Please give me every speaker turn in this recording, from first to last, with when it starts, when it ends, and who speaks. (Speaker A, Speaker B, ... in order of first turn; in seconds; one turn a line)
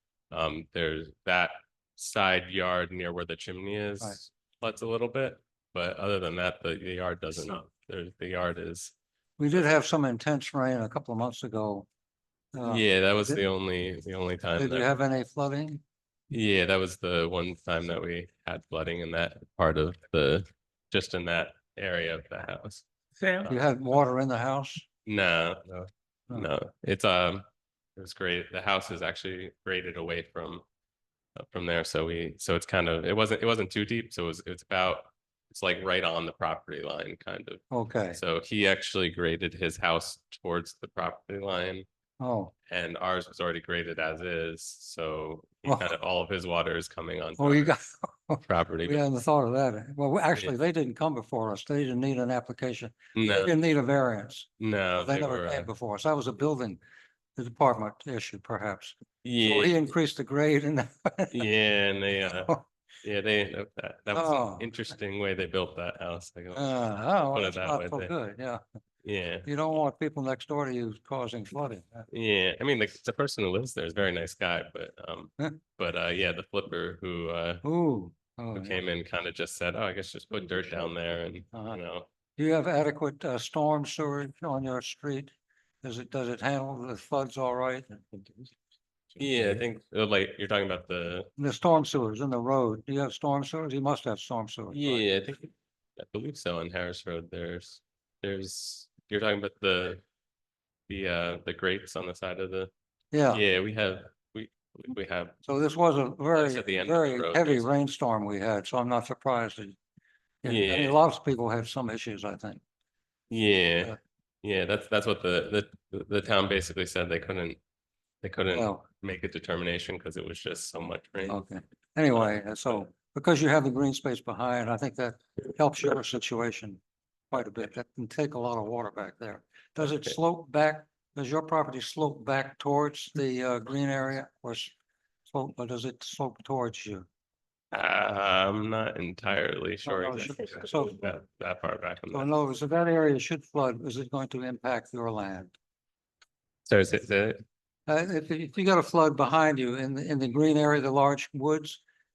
Speaker A: 0.3-8.9
Speaker B: 9.4-11.9
Speaker B: 12.6-13.4
Speaker A: 12.6-14.9
Speaker B: 14.6-15.8
Speaker A: 16.3-22.9
Speaker B: 23.5-24.9
Speaker A: 25.1-27.4
Speaker A: 28.0-30.6
Speaker A: 31.4-41.9
Speaker B: 37.7-38.2
Speaker B: 42.2-42.5
Speaker A: 42.7-47.7
Speaker B: 45.7-45.9
Speaker B: 47.4-56.8
Speaker A: 48.5-49.0
Speaker A: 53.1-53.5
Speaker A: 54.6-55.7
Speaker B: 57.4-61.5
Speaker A: 59.2-59.9
Speaker A: 61.3-62.5
Speaker A: 63.0-66.7
Speaker B: 64.1-64.7
Speaker B: 66.5-68.6
Speaker A: 67.2-68.1
Speaker A: 69.0-69.5
Speaker B: 69.5-72.1
Speaker A: 72.1-77.6
Speaker B: 77.6-78.8
Speaker A: 78.5-82.1
Speaker B: 81.5-81.8
Speaker B: 82.4-85.3
Speaker B: 85.8-88.3
Speaker A: 89.2-91.3
Speaker B: 91.4-95.1
Speaker A: 94.7-100.0
Speaker A: 100.9-102.7
Speaker B: 103.1-103.4
Speaker A: 103.3-105.4
Speaker B: 105.5-109.8
Speaker A: 106.3-107.7
Speaker B: 110.4-112.6
Speaker A: 110.4-111.0
Speaker A: 113.3-117.6
Speaker A: 118.2-121.4
Speaker B: 118.5-118.8
Speaker B: 121.2-126.8
Speaker B: 127.3-134.7
Speaker B: 135.3-137.1
Speaker A: 137.7-142.3
Speaker B: 139.8-140.9
Speaker B: 142.1-145.5
Speaker A: 146.7-147.4
Speaker B: 147.9-151.8